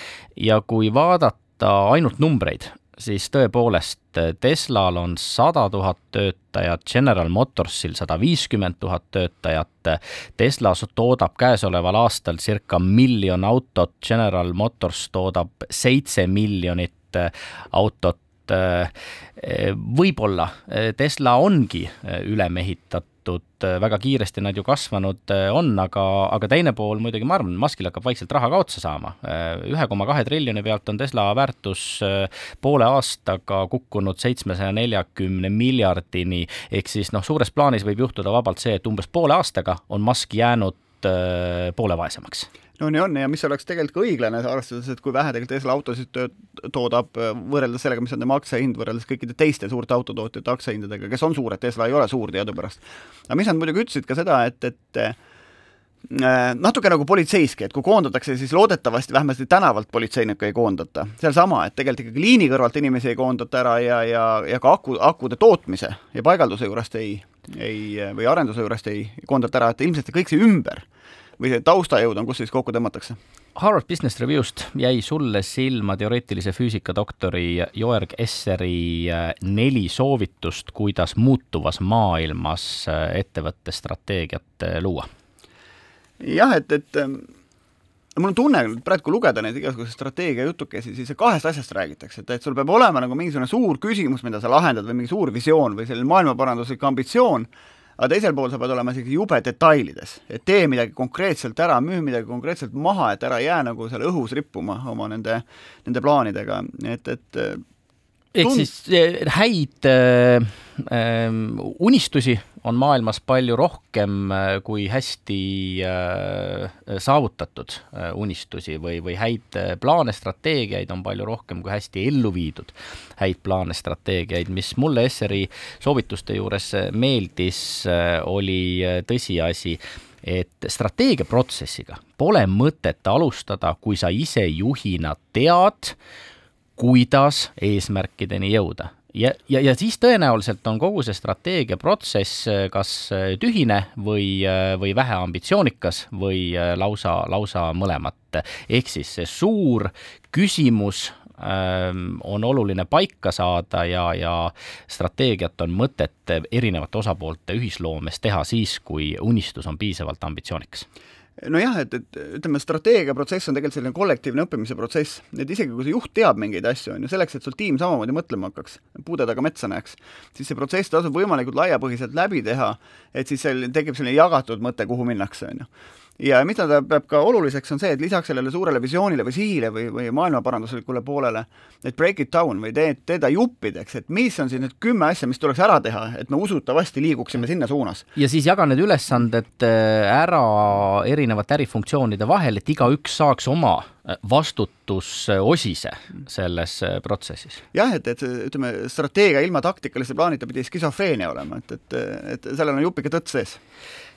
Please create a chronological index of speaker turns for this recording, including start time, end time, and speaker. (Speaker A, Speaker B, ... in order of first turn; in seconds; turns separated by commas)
Speaker A: 0.3-42.5, Speaker B: 42.8-55.2, Speaker B: 56.1-70.8, Speaker B: 71.4-73.2, Speaker A: 73.5-85.1, Speaker B: 86.2-87.2, Speaker B: 88.2-107.6, Speaker A: 108.3-135.9, Speaker B: 108.4-108.7, Speaker A: 136.8-160.8, Speaker B: 161.4-175.7, Speaker B: 176.2-188.1, Speaker A: 188.2-197.6, Speaker B: 197.7-203.6